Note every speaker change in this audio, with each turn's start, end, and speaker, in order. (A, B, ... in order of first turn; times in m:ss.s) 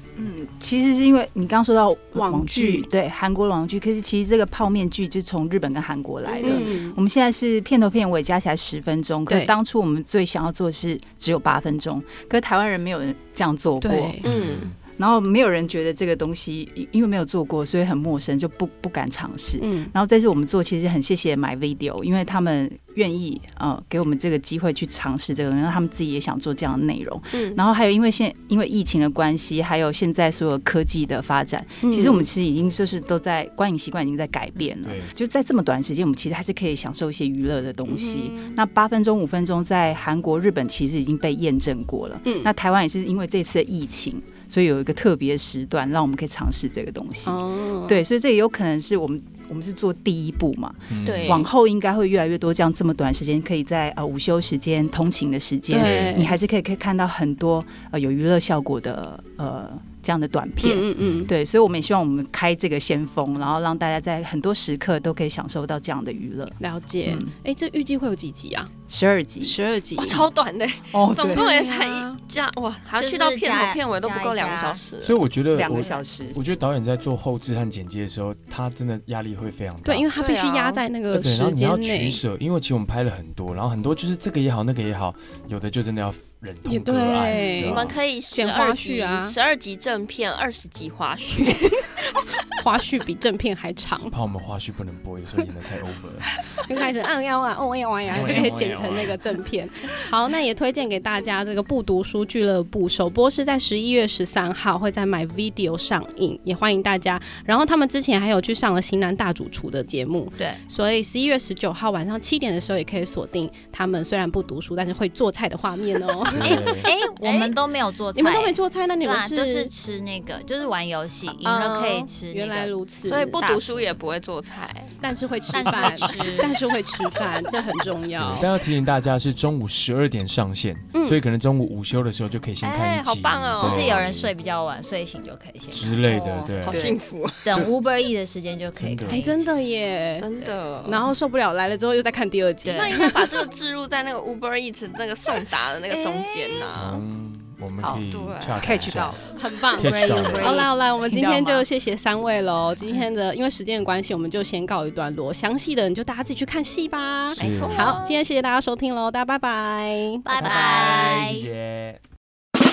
0:00.2-0:14.2 A
0:02.1-0:02.9 B
0:06.4-0:07.0 B
0:13.8-0:14.2 B
0:14.2-0:14.7 C
0:14.2-0:14.8 D
0:14.9-1:07.3 A
0:19.6-0:19.9 B
0:27.3-0:27.6 C
0:31.8-0:32.2 B
0:34.8-0:35.1 D
0:37.9-0:38.6 B
0:42.2-0:42.5 B
0:47.2-0:48.0 B
0:50.9-0:51.5 D
0:51.0-0:51.5 C
0:55.7-0:56.4 B
0:55.8-0:56.2 D
1:00.6-1:01.3 B
1:01.0-1:01.3 D
1:06.6-1:08.7 B
1:08.9-1:09.6 A
1:09.4-1:10.3 B
1:09.9-1:15.2 C
1:10.9-1:11.5 A
1:11.3-1:12.2 B
1:13.0-1:14.8 E
1:15.0-1:20.1 D
1:15.5-1:16.4 A
1:15.8-1:16.0 E
1:19.8-1:22.2 B
1:20.1-1:20.8 C
1:21.1-1:28.0 D
1:26.6-1:29.4 B
1:27.3-1:31.9 C
1:32.5-1:34.1 B
1:34.0-1:36.3 D
1:36.6-1:56.6 B
1:38.1-1:39.2 D
1:56.4-1:56.9 D
1:56.4-2:02.7 E
1:57.0-1:57.6 C
1:58.1-1:59.7 B
2:01.4-2:03.4 B
2:03.0-2:05.0 C
2:03.3-2:03.9 E
2:05.0-2:08.5 B
2:05.5-2:06.6 E
2:08.1-2:14.3 D
2:10.9-2:11.2 B
2:12.6-2:14.0 C
2:13.6-2:16.9 E
2:15.7-2:16.9 D
2:16.1-2:17.0 A
2:16.7-2:17.5 C
2:17.4-2:19.5 E
2:18.8-2:19.3 D
2:19.1-2:20.3 B
2:20.2-2:21.1 C
2:20.8-2:23.4 B
2:22.6-2:23.0 E
2:22.7-2:27.0 C
2:26.8-2:29.2 D
2:27.9-2:28.7 C
2:28.6-2:29.3 A
2:29.4-2:40.2 B
2:29.8-2:31.6 E
2:29.8-2:30.6 D
2:37.3-2:38.2 C
2:37.4-2:37.9 D
2:40.2-2:41.5 E
2:40.4-2:42.0 D